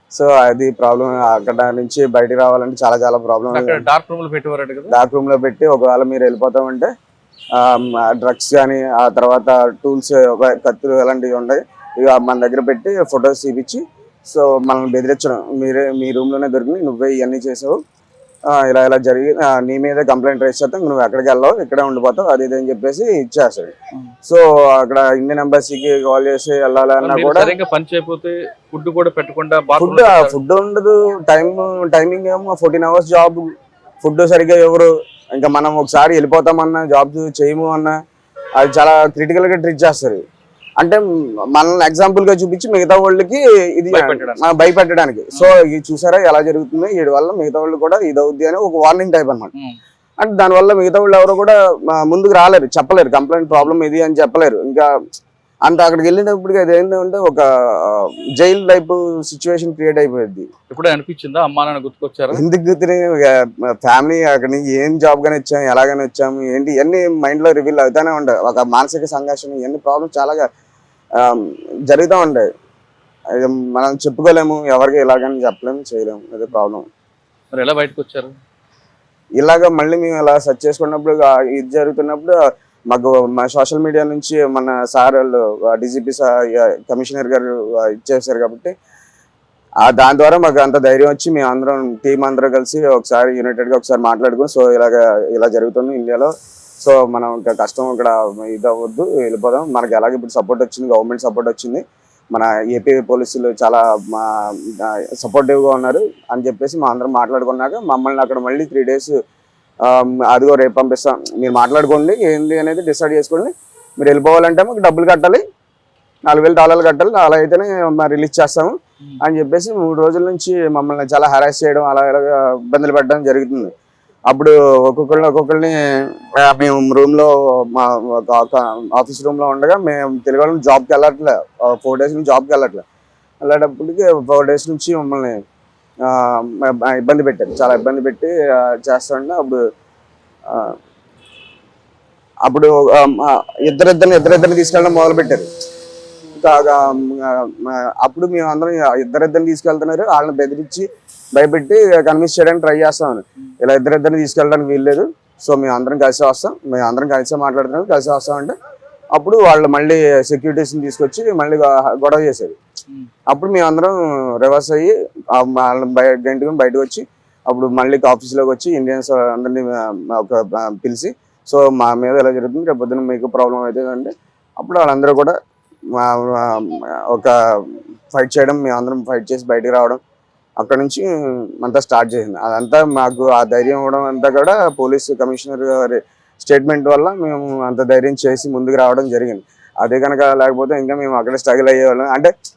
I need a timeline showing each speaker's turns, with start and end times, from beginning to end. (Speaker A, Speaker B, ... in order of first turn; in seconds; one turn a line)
Speaker A: 0.1-3.8
Speaker B: 3.5-5.0
Speaker A: 4.9-6.9
Speaker A: 7.5-17.8
Speaker A: 18.5-23.7
Speaker A: 24.2-27.6
Speaker B: 27.0-30.4
Speaker A: 29.8-33.5
Speaker A: 34.0-38.0
Speaker A: 38.6-40.2
Speaker A: 41.5-49.5
Speaker B: 43.9-44.4
Speaker A: 50.2-54.9
Speaker B: 53.5-53.8
Speaker A: 55.6-60.5
Speaker B: 60.7-62.4
Speaker A: 62.3-70.5
Speaker A: 71.2-72.5
Speaker A: 73.3-76.8
Speaker B: 77.5-78.3
Speaker A: 79.4-82.4
Speaker A: 82.9-88.7
Speaker A: 89.8-96.3
Speaker A: 96.8-109.1
Speaker A: 109.8-115.4
Speaker A: 116.3-123.7
Speaker A: 124.3-132.8
Speaker A: 133.4-135.3
Speaker A: 136.0-139.6
Speaker A: 140.5-140.8
Speaker A: 142.4-145.5
Speaker A: 146.3-158.6
Speaker A: 159.1-162.6
Speaker A: 163.3-175.3
Speaker A: 175.9-180.0
Speaker A: 180.6-192.3